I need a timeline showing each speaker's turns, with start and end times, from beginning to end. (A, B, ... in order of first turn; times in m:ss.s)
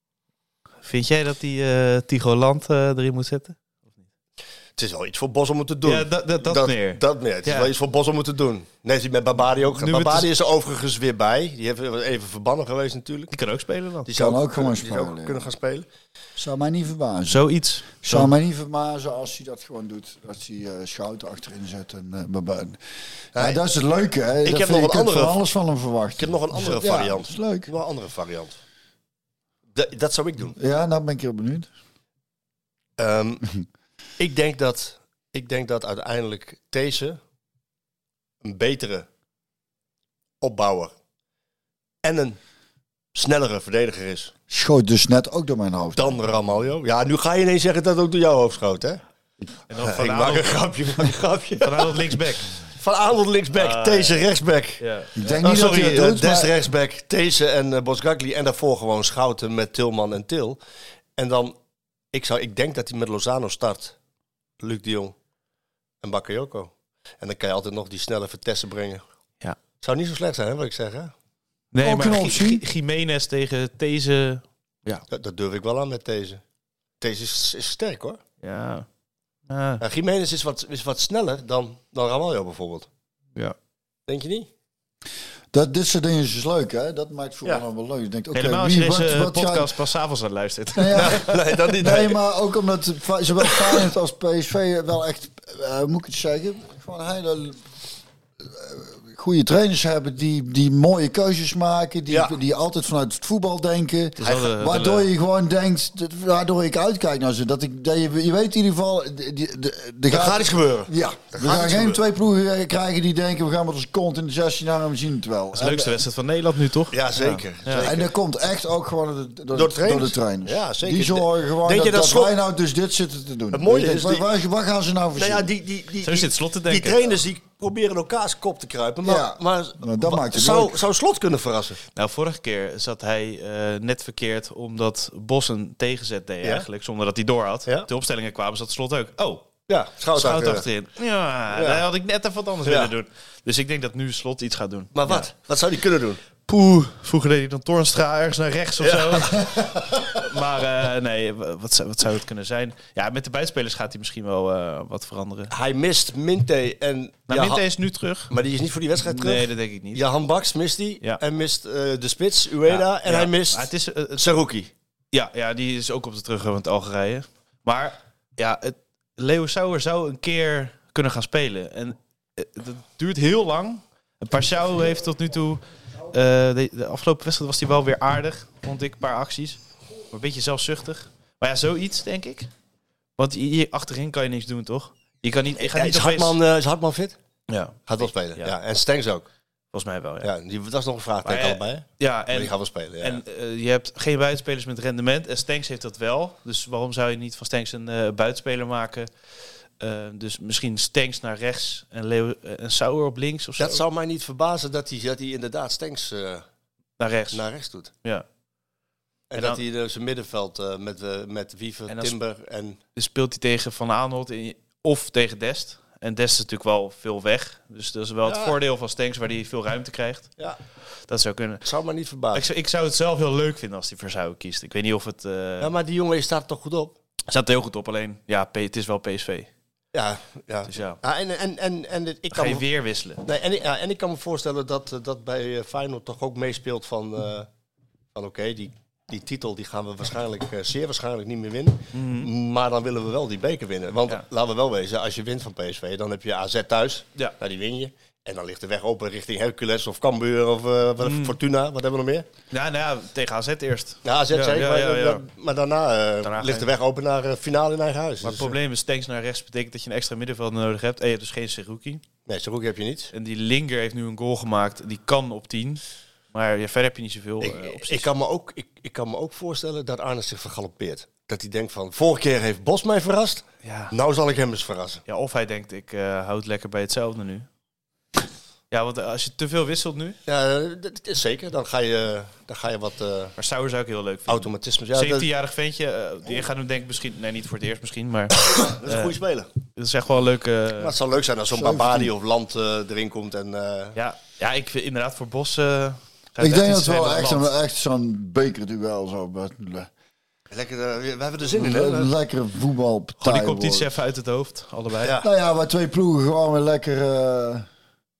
0:00.8-0:03.6 A
0:04.8-0:13.3 B
0:05.8-0:07.7 A
0:09.7-0:10.3 A
0:13.3-0:14.1 A
0:14.0-0:15.9 B
0:14.1-0:15.4 C
0:16.4-0:17.4 C
0:17.3-0:18.3 A
0:18.0-0:22.8 C
0:23.3-0:23.6 B
0:23.3-0:27.7 C
0:24.4-0:25.4 B
0:26.2-0:28.6 B
0:29.7-0:30.6 B
0:30.6-0:31.7 C
0:33.0-0:33.4 B
0:34.2-0:37.2 B
0:38.4-0:39.1 B
0:40.4-0:40.9 B
0:42.0-0:42.4 B
0:43.1-0:44.3 B
0:44.5-0:46.2 C
0:46.0-0:49.0 B
0:49.7-0:51.0 A
0:49.8-0:52.1 B
0:51.6-0:52.6 A
0:52.7-0:54.8 B
0:53.5-0:54.2 A
0:54.8-0:55.3 A
0:55.2-0:56.5 C
0:55.4-1:00.6 B
1:01.2-1:01.6 B
1:02.1-1:04.0 B
1:04.6-1:05.2 B
1:06.0-1:09.0 B
1:09.8-1:11.1 B
1:11.7-1:15.0 A
1:11.8-1:12.6 C
1:15.1-1:16.4 B
1:17.0-1:18.2 B
1:18.4-1:18.9 A
1:19.5-1:19.8 A
1:19.8-1:22.9 B
1:24.1-1:24.5 B
1:25.5-1:29.7 C
1:28.3-1:31.3 A
1:30.7-1:37.6 C
1:30.9-1:32.2 B
1:38.4-1:56.0 C
1:42.1-1:42.4 B
1:44.2-1:45.1 A
1:50.1-1:52.0 B
1:55.5-1:57.9 A
1:56.9-1:58.1 B
1:57.8-2:05.5 C
1:59.5-2:02.3 B
2:03.5-2:04.3 B
2:05.1-2:11.8 B
2:06.0-2:07.1 A
2:09.0-2:10.8 C
2:11.9-2:19.5 A
2:19.7-2:20.6 B
2:20.1-2:25.3 A
2:21.5-2:21.8 B
2:22.6-2:22.9 B
2:24.9-2:26.2 B
2:26.5-2:35.5 A
2:28.8-2:29.8 B
2:35.5-2:37.6 B
2:37.3-2:38.3 A
2:38.3-2:44.7 B
2:39.0-2:40.0 A
2:42.6-2:44.4 A
2:45.1-3:02.5 A
3:03.2-3:06.4 A
3:05.6-3:07.2 B
3:07.5-3:08.5 A
3:07.9-3:09.3 B
3:09.7-3:10.3 A
3:10.2-3:13.2 B
3:11.2-3:19.1 A
3:19.8-3:23.8 A
3:23.6-3:26.4 B
3:27.0-3:28.2 A
3:27.3-3:27.9 B
3:29.3-3:32.8 B
3:29.4-3:29.6 A
3:31.9-3:32.2 A
3:32.9-3:40.4 A
3:38.2-3:38.6 B
3:41.1-3:41.6 A
3:41.6-3:42.5 B
3:42.3-3:45.7 A
3:45.6-3:46.9 B
3:47.3-3:49.5 A
3:49.9-3:52.6 B
3:50.7-3:51.0 A
3:52.3-3:53.2 A
3:53.2-3:57.5 B
3:58.1-4:12.2 B
4:01.9-4:02.3 A
4:11.0-4:11.4 A
4:12.5-4:15.2 A
4:14.0-4:18.5 B
4:16.2-4:16.7 A
4:18.2-4:22.0 A
4:22.3-4:23.1 B
4:23.1-4:25.8 A
4:26.3-4:28.1 A
4:27.4-4:35.0 B
4:33.6-4:33.9 A
4:35.1-4:37.4 A
4:38.7-4:40.2 A
4:40.3-4:43.3 B
4:43.4-4:49.2 A
4:44.3-4:45.3 B
4:48.4-4:49.5 B
4:49.7-4:51.0 A
4:50.8-4:54.0 B
4:51.5-4:52.1 C
4:54.0-4:57.5 A
4:56.4-4:59.9 C
5:00.5-5:02.1 B
5:01.5-5:03.9 C
5:03.2-5:05.1 A
5:05.0-5:05.3 B
5:05.2-5:07.7 C